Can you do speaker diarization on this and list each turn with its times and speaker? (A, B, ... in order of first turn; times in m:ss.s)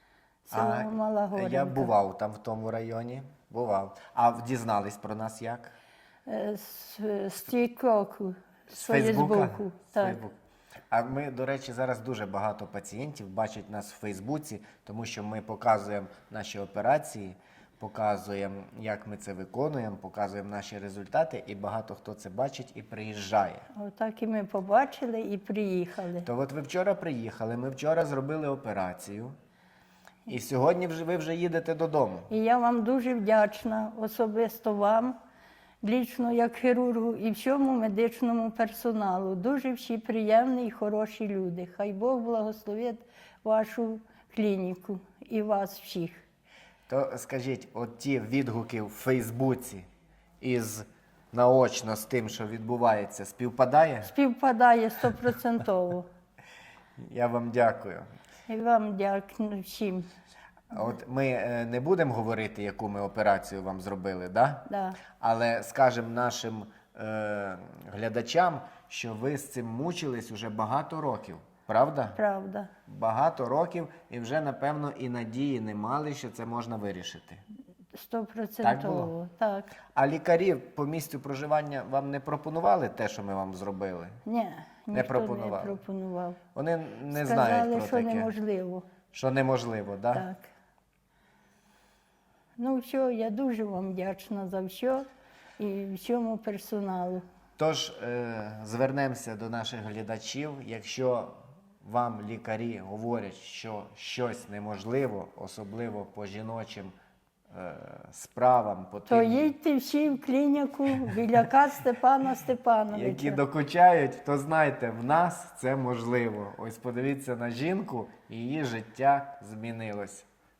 0:00.4-0:01.9 A
0:00.5-0:05.7 B
0:06.2-0:10.2 A
0:08.7-0:10.4 B
0:10.9-0:23.6 B
0:23.7-0:26.3 A
0:26.2-0:29.3 B
0:30.3-0:32.3 B
0:32.3-0:35.2 A
0:35.8-0:46.2 A
0:46.9-0:49.8 B
0:50.4-0:54.1 B
0:54.0-0:56.1 A
0:57.0-0:58.1 B
0:58.5-1:00.1 A
1:00.7-1:04.6 B
1:04.7-1:05.0 A
1:05.2-1:12.2 B
1:12.2-1:12.7 A
1:12.8-1:17.4 B
1:17.9-1:19.7 A
1:18.6-1:19.1 B
1:19.9-1:24.2 B
1:24.2-1:26.4 A
1:24.9-1:25.8 B
1:26.5-1:28.3 B
1:27.1-1:28.9 A
1:29.1-1:30.2 B
1:30.1-1:30.5 A
1:32.6-1:35.0 A
1:35.6-1:37.2 A
1:37.6-1:46.9 B
1:47.5-1:49.5 B
1:49.0-1:53.4 A
1:52.9-2:00.3 B